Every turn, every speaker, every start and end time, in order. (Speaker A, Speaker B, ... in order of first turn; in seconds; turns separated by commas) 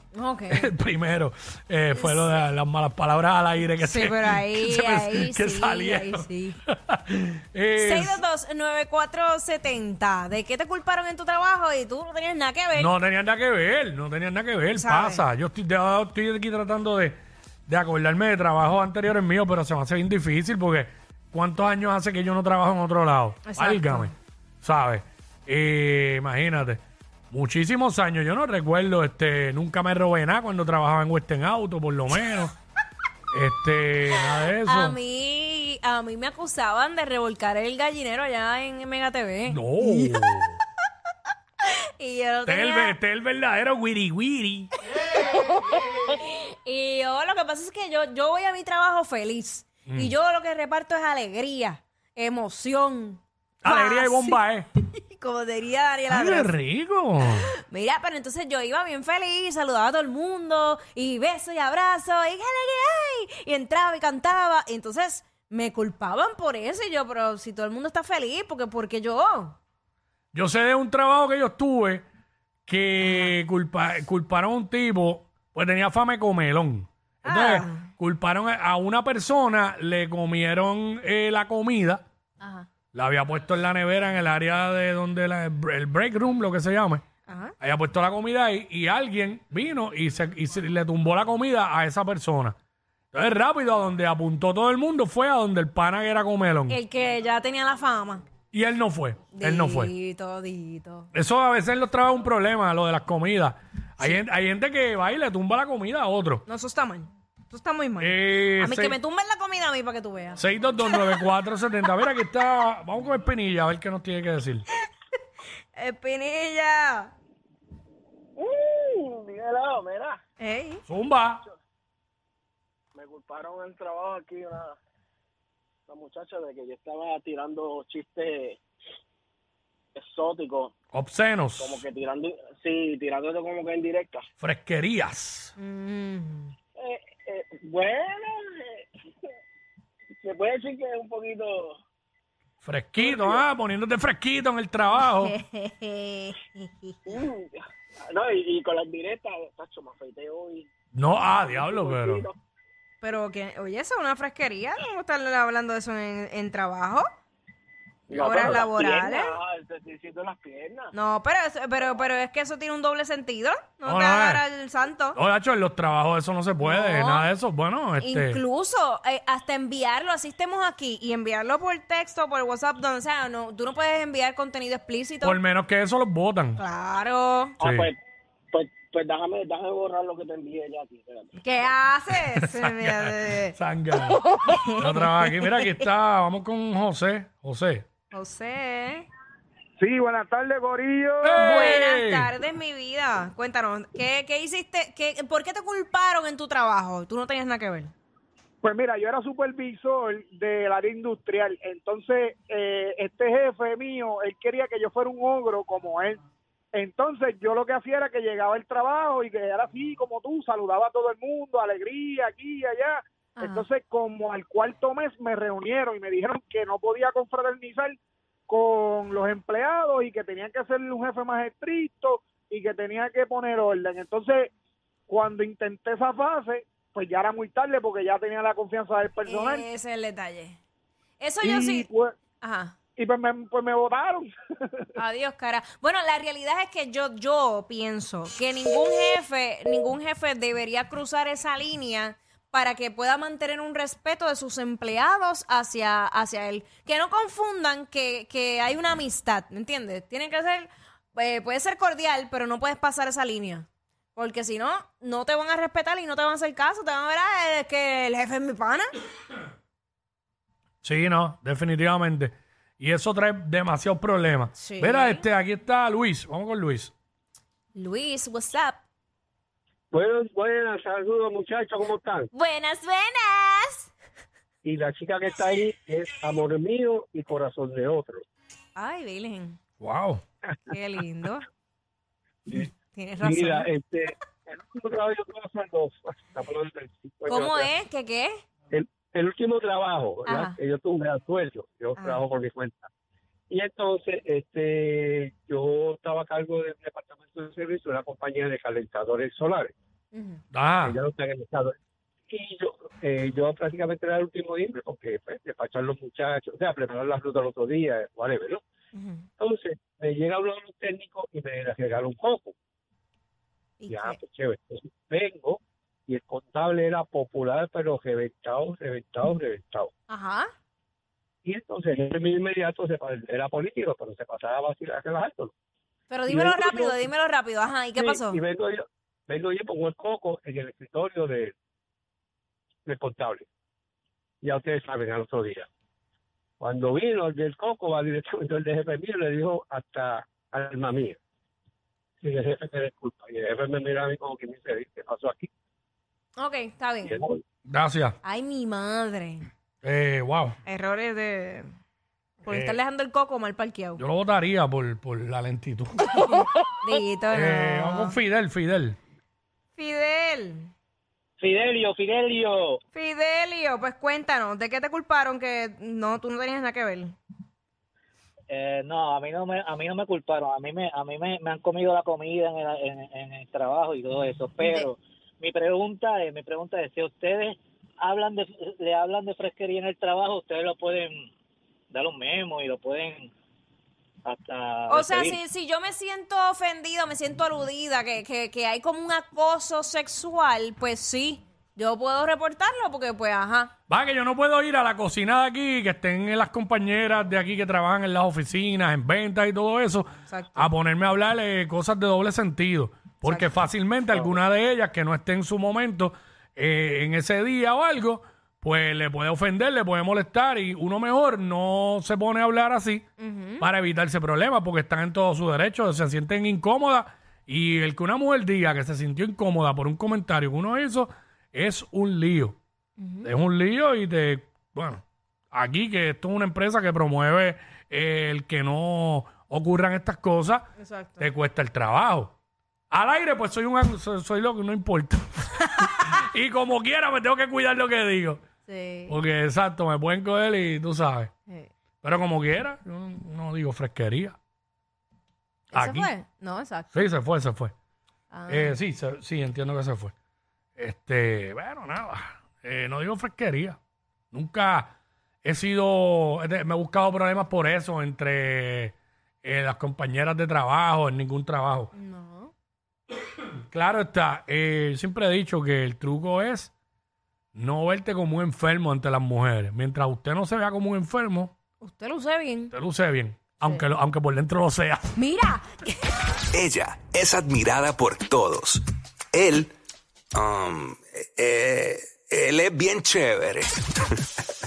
Speaker A: 0.1-0.7, Speaker B: 0.5-8.2, Speaker A: 1.9-2.3, Speaker A: 3.8-6.6, Speaker A: 7.7-12.9, Speaker B: 12.7-32.5, Speaker A: 14.7-15.2, Speaker A: 23.4-24.1, Speaker B: 33.3-35.0, Speaker A: 34.6-40.3, Speaker B: 39.5-40.6, Speaker A: 41.6-43.0, Speaker B: 42.5-44.7, Speaker A: 44.9-56.6, Speaker B: 49.9-50.1, Speaker B: 53.6-54.7, Speaker B: 56.1-57.5, Speaker A: 57.3-69.5, Speaker B: 70.3-72.0, Speaker B: 72.7-82.0, Speaker A: 73.0-73.3, Speaker A: 77.2-77.8, Speaker A: 82.4-82.7, Speaker B: 82.9-87.0, Speaker A: 87.3-87.5, Speaker B: 87.6-92.5, Speaker B: 93.1-96.8, Speaker A: 96.7-98.2, Speaker B: 98.5-99.9, Speaker A: 99.3-101.1, Speaker B: 101.1-106.4, Speaker A: 106.5-111.2, Speaker B: 108.0-109.0, Speaker B: 110.4-114.6, Speaker A: 115.7-117.1, Speaker C: 118.4-120.2, Speaker A: 120.4-120.8, Speaker B: 120.9-121.4, Speaker C: 122.9-124.8, Speaker C: 125.9-128.6, Speaker C: 129.9-130.7, Speaker B: 130.9-131.8, Speaker C: 131.6-134.2, Speaker B: 134.4-135.5, Speaker A: 135.6-136.5, Speaker C: 136.8-138.9, Speaker C: 140.2-141.8, Speaker B: 142.6-145.3, Speaker C: 143.0-143.5, Speaker A: 145.0-146.9, Speaker C: 147.1-152.4, Speaker B: 150.9-152.2, Speaker A: 153.0-157.1, Speaker C: 158.1-160.9, Speaker A: 158.1-159.3, Speaker A: 160.9-165.2, Speaker B: 163.8-164.4, Speaker B: 165.2-168.4, Speaker A: 166.6-167.3, Speaker A: 168.0-175.4, Speaker B: 175.2-176.6, Speaker A: 176.6-177.6, Speaker C: 177.6-178.0, Speaker B: 177.6-177.9, Speaker C: 178.5-181.4, Speaker A: 181.4-183.5, Speaker B: 182.1-184.2, Speaker A: 184.5-184.9, Speaker B: 184.8-187.8, Speaker A: 188.1-189.1, Speaker D: 189.8-191.8, Speaker B: 191.2-192.3, Speaker A: 191.4-197.9, Speaker D: 198.6-206.2, Speaker D: 206.7-218.0, Speaker A: 213.4-213.7, Speaker D: 218.5-224.5, Speaker D: 225.1-229.7, Speaker A: 229.2-230.6, Speaker A: 231.2-231.9, Speaker D: 231.4-232.2, Speaker A: 232.4-232.7, Speaker D: 233.0-234.9, Speaker A: 235.0-258.9, Speaker B: 260.8-266.9, Speaker A: 264.6-265.2, Speaker A: 267.7-268.8, Speaker E: 269.9-272.3, Speaker A: 272.3-273.9, Speaker E: 274.6-278.2, Speaker A: 278.8-279.6, Speaker B: 279.8-280.2, Speaker A: 280.7-281.4, Speaker E: 282.5-287.7, Speaker A: 282.6-283.7, Speaker A: 287.3-288.3, Speaker E: 288.7-292.9, Speaker A: 290.2-290.6, Speaker A: 292.0-292.2, Speaker E: 293.5-299.7, Speaker A: 300.1-300.4, Speaker B: 300.5-301.0, Speaker E: 300.8-301.7, Speaker E: 302.3-308.6, Speaker A: 308.9-309.2, Speaker E: 309.4-312.5, Speaker A: 313.8-314.2, Speaker E: 313.9-319.9, Speaker A: 320.1-320.5, Speaker E: 321.4-325.5, Speaker A: 326.1-328.4, Speaker E: 326.3-327.1, Speaker E: 327.9-331.5, Speaker E: 332.8-333.5, Speaker E: 334.4-335.7, Speaker E: 336.6-341.2, Speaker E: 342.2-345.5, Speaker A: 346.4-347.2, Speaker E: 347.0-347.4, Speaker B: 347.6-348.1, Speaker A: 348.2-349.5, Speaker B: 349.8-350.6, Speaker A: 350.6-351.7, Speaker A: 352.4-354.0, Speaker B: 352.5-352.8, Speaker B: 354.0-356.0, Speaker A: 356.1-358.2, Speaker B: 357.3-359.0, Speaker A: 359.8-360.7, Speaker F: 361.4-362.8, Speaker A: 362.9-367.1, Speaker F: 368.5-381.3, Speaker A: 374.6-374.9, Speaker F: 381.9-383.3, Speaker F: 384.2-385.4, Speaker A: 384.9-393.7, Speaker B: 393.9-413.0, Speaker A: 400.3-400.7, Speaker A: 413.2-413.6, Speaker B: 413.6-422.6, Speaker A: 423.0-423.3, Speaker B: 423.2-430.6, Speaker A: 430.8-431.3, Speaker B: 431.2-432.3, Speaker B: 432.9-438.4, Speaker A: 438.7-439.2, Speaker B: 439.1-441.3, Speaker B: 442.0-444.4, Speaker A: 445.7-446.9, Speaker B: 445.7-446.1, Speaker B: 446.9-447.7, Speaker A: 448.3-448.8, Speaker B: 448.5-450.1, Speaker B: 450.8-453.8, Speaker B: 454.3-461.9, Speaker A: 461.9-462.5, Speaker B: 463.7-466.7, Speaker B: 467.5-471.5, Speaker A: 471.8-472.7, Speaker B: 472.7-475.1, Speaker A: 475.1-476.0, Speaker G: 476.5-479.7, Speaker G: 480.3-483.7